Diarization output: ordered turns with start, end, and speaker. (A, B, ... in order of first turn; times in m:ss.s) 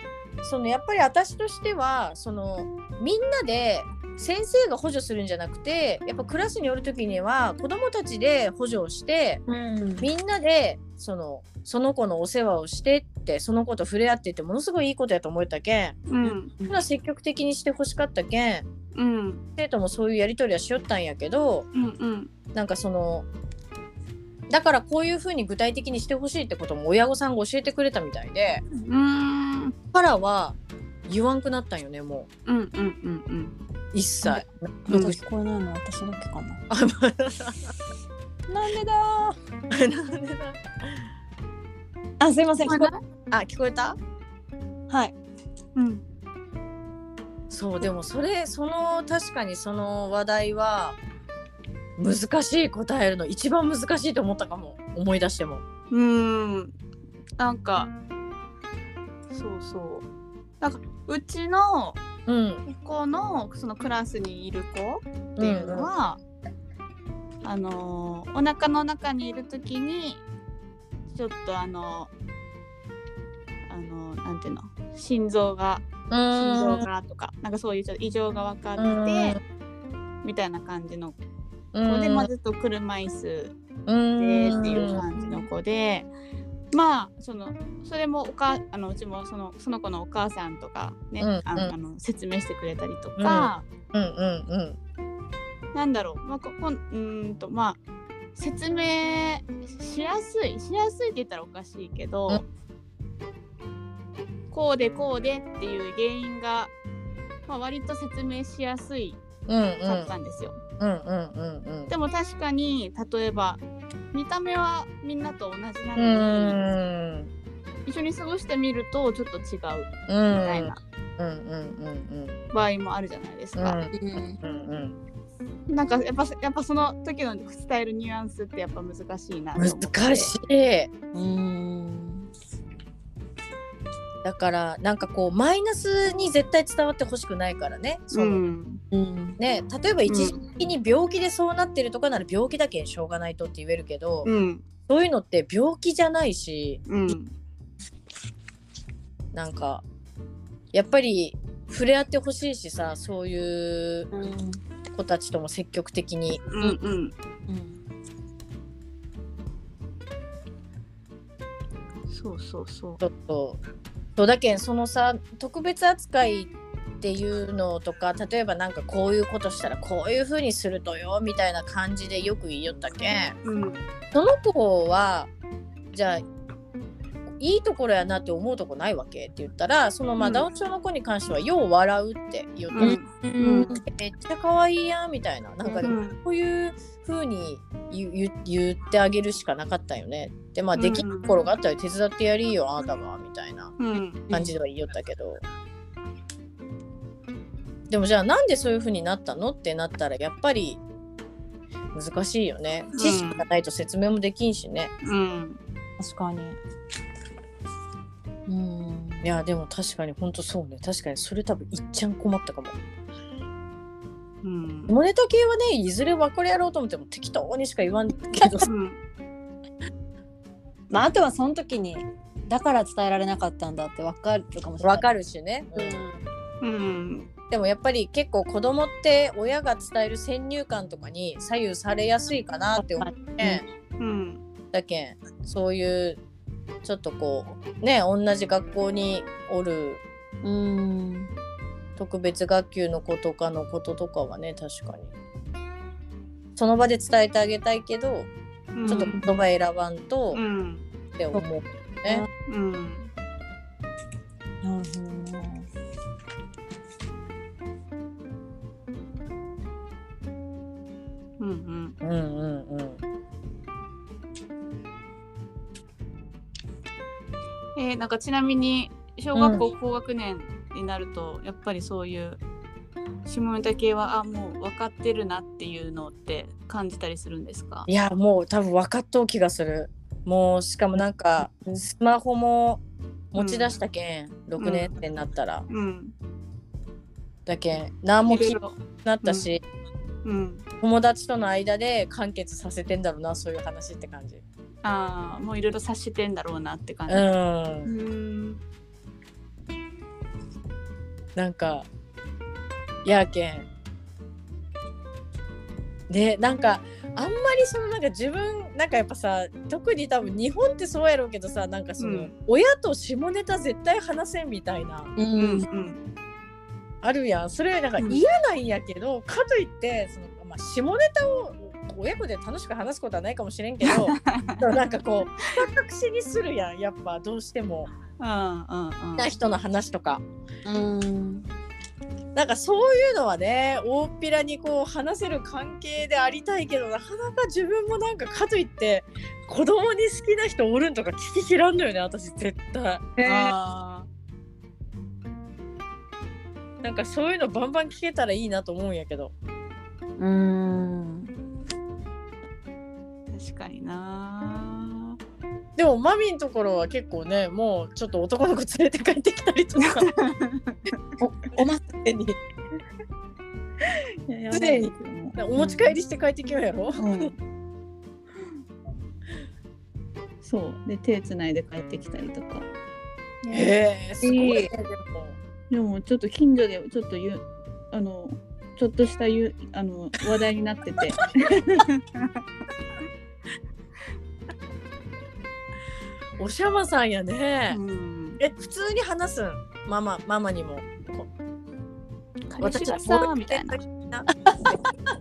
0:00.4-0:09.4 A
0:09.5-0:10.1 B
0:10.0-0:16.0 A
0:16.1-0:16.5 C
0:16.2-0:16.8 B
0:16.7-0:18.7 A
0:18.9-0:19.4 C
0:19.6-0:21.7 A
0:21.7-0:22.3 C
0:22.5-0:23.3 A
0:24.5-0:28.6 A
0:28.7-0:29.7 C
0:29.9-0:30.6 A
0:31.1-0:32.3 A
0:32.5-0:33.5 C
0:33.9-0:35.2 A
0:34.9-0:36.6 B
0:34.9-0:35.1 C
0:36.7-0:37.7 A
0:38.5-0:39.4 B
0:39.7-0:41.0 A
0:42.2-0:42.9 B
0:42.6-0:43.0 C
0:43.3-0:44.0 A
0:44.9-0:45.1 B
0:45.7-0:46.0 C
0:47.5-0:51.0 A
0:52.0-0:55.6 A
0:55.9-0:56.7 C
0:57.4-0:57.9 C
0:59.3-1:00.0 C
1:00.6-1:02.0 C
1:02.2-1:02.6 A
1:02.6-1:06.2 C
1:05.4-1:05.9 A
1:07.4-1:10.2 C
1:11.1-1:12.1 C
1:13.7-1:19.4 C
1:16.1-1:16.8 A
1:18.8-1:19.4 A
1:20.2-1:21.2 C
1:21.7-1:22.3 A
1:21.8-1:23.6 C
1:23.9-1:25.1 A
1:24.2-1:26.1 C
1:26.7-1:33.6 C
1:31.2-1:31.7 A
1:33.2-1:34.8 A
1:35.7-1:37.8 C
1:38.4-1:42.4 C
1:44.5-1:46.7 C
1:47.5-1:49.2 C
1:49.5-1:50.1 A
1:49.8-1:50.6 C
1:50.8-1:51.9 A
1:51.9-1:53.6 C
1:54.1-1:56.6 C
1:56.0-1:57.3 A
1:57.8-2:00.8 C
2:00.1-2:02.4 A
2:02.5-2:03.8 C
2:03.6-2:05.0 A
2:03.9-2:04.4 B
2:05.7-2:10.3 C
2:09.6-2:10.9 A
2:11.1-2:12.3 B
2:14.2-2:18.4 A
2:18.1-2:18.8 C
2:18.9-2:19.4 B
2:19.4-2:24.3 A
2:20.1-2:20.4 C
2:24.2-2:24.6 C
2:24.8-2:26.8 A
2:26.9-2:27.3 C
2:29.3-2:29.8 A
2:30.7-2:34.1 A
2:34.1-2:34.6 B
2:34.9-2:36.5 A
2:36.5-2:37.1 C
2:37.5-2:37.8 B
2:42.1-2:43.0 C
2:43.0-2:43.6 A
2:44.2-2:53.4 A
2:53.4-2:53.8 C
2:54.1-2:55.3 A
2:55.9-2:56.2 A
2:57.4-3:03.0 A
3:00.2-3:00.5 C
3:02.7-3:03.7 C
3:02.8-3:03.8 B
3:03.8-3:13.7 A
3:05.8-3:06.2 C
3:10.7-3:11.4 C
3:13.8-3:14.3 C
3:14.3-3:15.4 A
3:17.9-3:20.8 A
3:21.9-3:24.9 A
3:22.9-3:23.4 C
3:25.0-3:25.6 C
3:26.0-3:26.6 B
3:28.5-3:29.3 B
3:29.2-3:32.8 A
3:34.4-3:34.9 C
3:34.9-3:38.7 A
3:38.6-3:39.0 C
3:40.9-3:45.0 B
3:44.8-3:46.0 A
3:45.7-3:46.2 B
3:46.6-3:47.3 C
3:47.5-3:53.6 A
3:52.8-3:53.6 B
3:54.0-3:54.4 C
3:54.7-3:56.2 A
3:56.8-4:00.0 A
4:00.4-4:01.3 B
4:02.0-4:05.1 A
4:06.6-4:08.3 A
4:08.7-4:09.2 C
4:08.9-4:09.3 B
4:08.9-4:10.4 A
4:10.3-4:10.8 C
4:11.2-4:12.2 A
4:12.4-4:13.1 C
4:14.6-4:15.7 B
4:21.4-4:21.9 C
4:22.0-4:23.0 A
4:27.8-4:32.4 C
4:29.3-4:29.6 A
4:33.2-4:37.9 C
4:37.9-4:45.6 A
4:43.4-4:43.8 C
4:44.6-4:44.9 C
4:45.7-4:46.1 C
4:47.4-4:49.6 A
4:48.2-4:49.5 C
4:50.2-4:50.6 C
4:50.8-4:54.4 A
4:54.8-4:57.2 C
4:57.1-4:57.9 A
4:57.8-4:58.6 C
5:01.4-5:01.9 A
5:03.0-5:03.7 A
5:06.1-5:15.1 A
5:12.0-5:12.3 C
5:15.2-5:15.6 B
5:15.3-5:16.0 C
5:17.0-5:27.9 A
5:23.8-5:24.7 C
5:28.2-5:29.3 C
5:29.2-5:30.2 A
5:30.6-5:31.4 B
5:32.3-5:43.5 A
5:43.2-5:44.1 C
5:46.8-5:49.3 A
5:50.2-5:51.3 B
5:53.3-5:55.2 C
5:55.8-6:00.1 A
5:59.8-6:00.9 C
6:01.2-6:01.8 B
6:01.5-6:02.4 A
6:04.3-6:05.4 C
6:04.5-6:07.3 A
6:05.6-6:05.9 B
6:07.0-6:07.3 C
6:10.4-6:12.6 C
6:13.5-6:15.4 A
6:14.2-6:14.7 B
6:15.7-6:22.3 C
6:26.4-6:27.8 A
6:27.7-6:28.4 C
6:28.4-6:31.3 A
6:32.5-6:33.8 C
6:32.6-6:34.3 A